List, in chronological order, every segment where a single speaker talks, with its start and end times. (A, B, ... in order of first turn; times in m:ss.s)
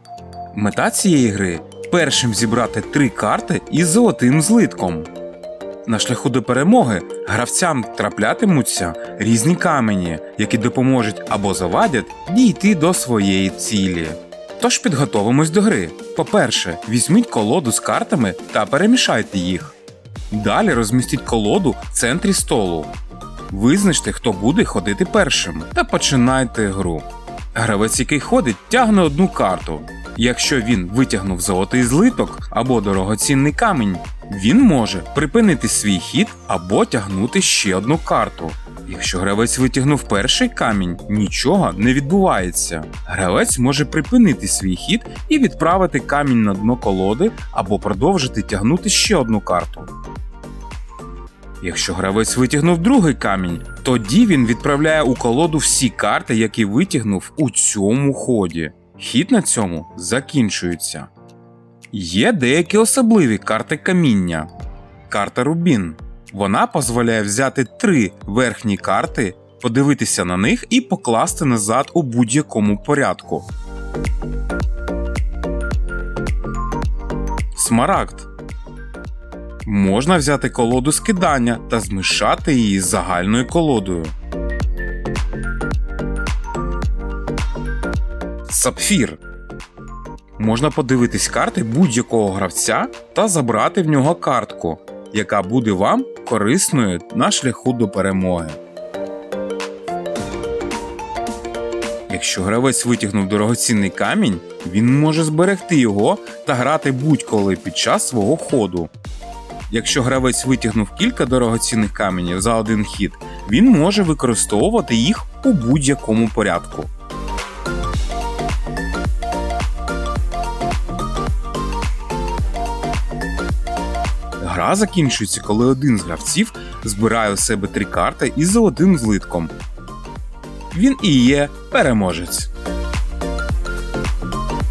0:00.5-0:05.1 A
0:05.8-0:19.7 A
0:20.3-0:22.9 A
0:23.5-0:49.9 A
0:51.6-1:01.1 A
1:01.9-1:04.5 A
1:05.1-1:13.5 A
1:17.5-1:18.3 A
1:19.6-1:24.1 A
1:28.5-1:29.2 A
1:30.4-1:38.6 A
1:42.1-1:48.9 A
1:49.7-1:56.9 A
2:04.4-2:09.5 A
2:10.7-2:12.5 A